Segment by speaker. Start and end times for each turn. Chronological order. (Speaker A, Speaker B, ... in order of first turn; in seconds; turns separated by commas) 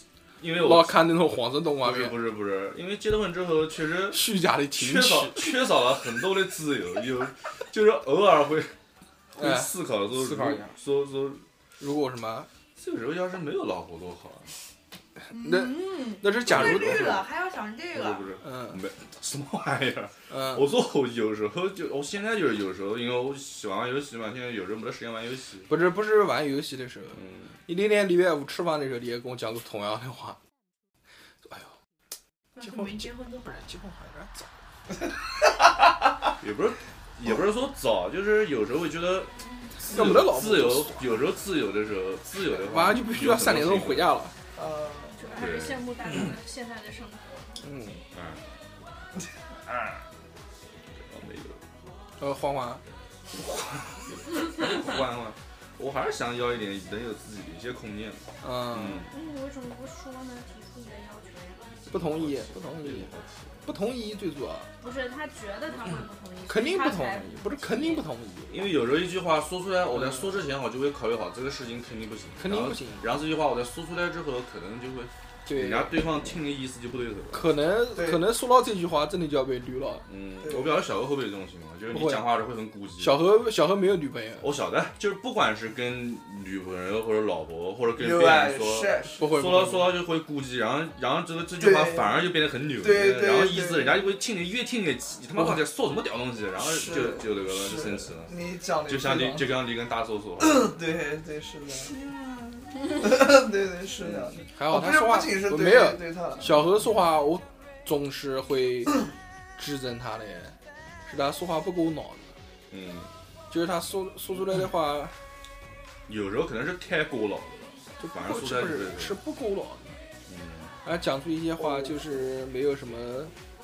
Speaker A: 0.4-1.1, Speaker B: 0.5-2.2, Speaker A: 1.8-8.7, Speaker B: 4.1-5.5, Speaker A: 9.3-11.4, Speaker B: 9.4-10.7, Speaker B: 11.8-12.5, Speaker A: 12.8-14.5, Speaker B: 15.2-17.1, Speaker C: 15.3-18.3, Speaker A: 16.4-17.3, Speaker A: 17.9-25.7, Speaker B: 18.4-18.8, Speaker B: 20.3-20.7, Speaker B: 25.7-30.4, Speaker A: 27.1-27.6, Speaker B: 31.4-31.7, Speaker C: 32.5-33.6, Speaker B: 32.6-34.5, Speaker A: 36.4-44.1, Speaker B: 39.9-41.1, Speaker B: 42.7-44.3, Speaker D: 44.5-45.2, Speaker E: 45.2-47.6, Speaker A: 45.3-45.9, Speaker B: 47.6-48.0, Speaker A: 48.1-48.5, Speaker A: 51.0-51.6, Speaker B: 52.2-52.8, Speaker A: 53.3-59.2, Speaker B: 58.4-59.0, Speaker E: 59.1-61.9, Speaker B: 61.9-63.1, Speaker A: 61.9-63.7, Speaker B: 63.6-64.7, Speaker E: 64.8-68.1, Speaker B: 66.5-68.7, Speaker A: 68.5-77.5, Speaker B: 69.9-70.4, Speaker B: 72.4-73.1, Speaker B: 75.5-76.3, Speaker B: 77.3-80.0, Speaker D: 77.9-78.3, Speaker A: 80.1-83.2, Speaker D: 80.4-80.7, Speaker B: 81.9-82.3, Speaker B: 83.0-84.5, Speaker A: 84.4-100.7, Speaker D: 88.0-89.3, Speaker B: 89.2-90.0, Speaker D: 91.6-94.0, Speaker D: 96.6-99.5, Speaker D: 100.4-102.0, Speaker D: 102.8-106.5, Speaker A: 104.0-104.4, Speaker B: 104.5-109.0, Speaker B: 109.6-112.3, Speaker A: 112.7-113.1, Speaker B: 113.5-115.1, Speaker A: 116.1-119.2, Speaker B: 118.0-120.0, Speaker A: 120.3-120.7, Speaker B: 120.8-123.3